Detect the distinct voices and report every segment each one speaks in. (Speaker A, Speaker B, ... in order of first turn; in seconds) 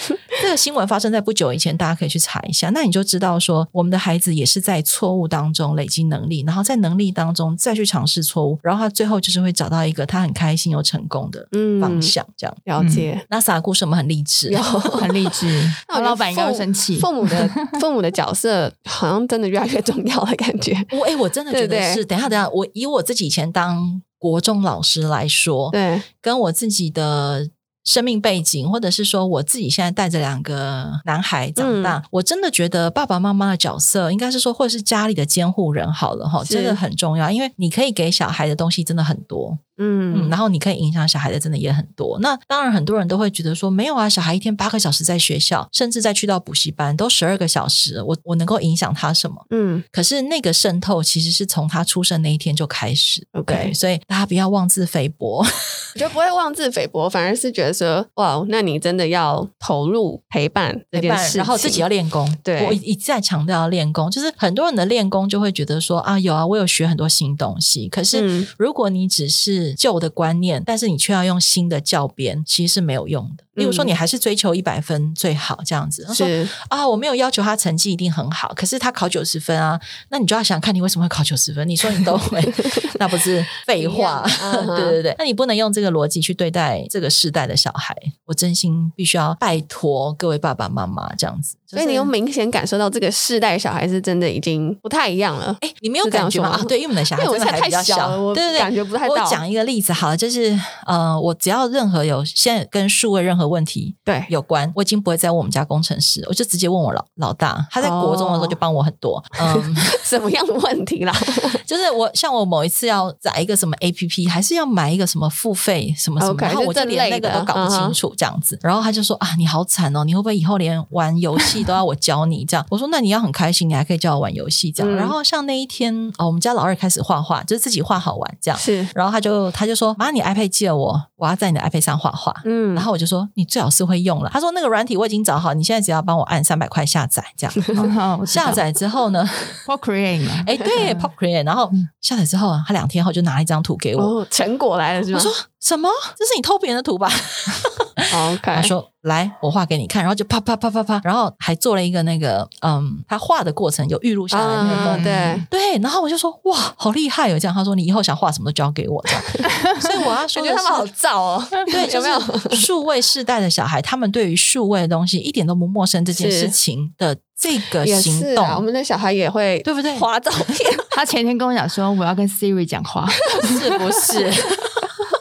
Speaker A: 0.3-12.6, 13.3-14.7, 20.9-55.8, 60.9-92.1, 95.6-110.0, 111.6-139.6, 140.4-144.1, 145.1-160.9, 161.7-168.6, 169.6-170.1, 173.4-174.9
Speaker B: 11.5-12.1, 12.7-13.2, 14.5-15.3, 15.9-20.9, 21.5-22.0, 25.7-26.1, 31.6-32.0, 36.4-36.8, 39.8-40.3, 49.5-49.8, 53.3-53.7, 55.9-61.9, 62.4-62.8, 68.1-68.5, 73.6-73.9, 76.1-76.5, 82.6-82.9, 83.8-85.0, 91.7-99.4, 104.0-104.3, 107.8-108.6, 109.4-111.6, 116.2-118.0, 124.8-125.1, 128.6-128.9, 132.4-132.9, 144.0-145.3, 148.1-148.7, 154.3-155.4, 159.1-159.5, 160.3-162.7, 166.2-166.5, 167.8-170.9, 173.3-173.6
Speaker C: 12.8-13.1, 14.9-17.8, 137.7-138.6, 139.6-141.1, 154.7-155.4, 170.9-173.7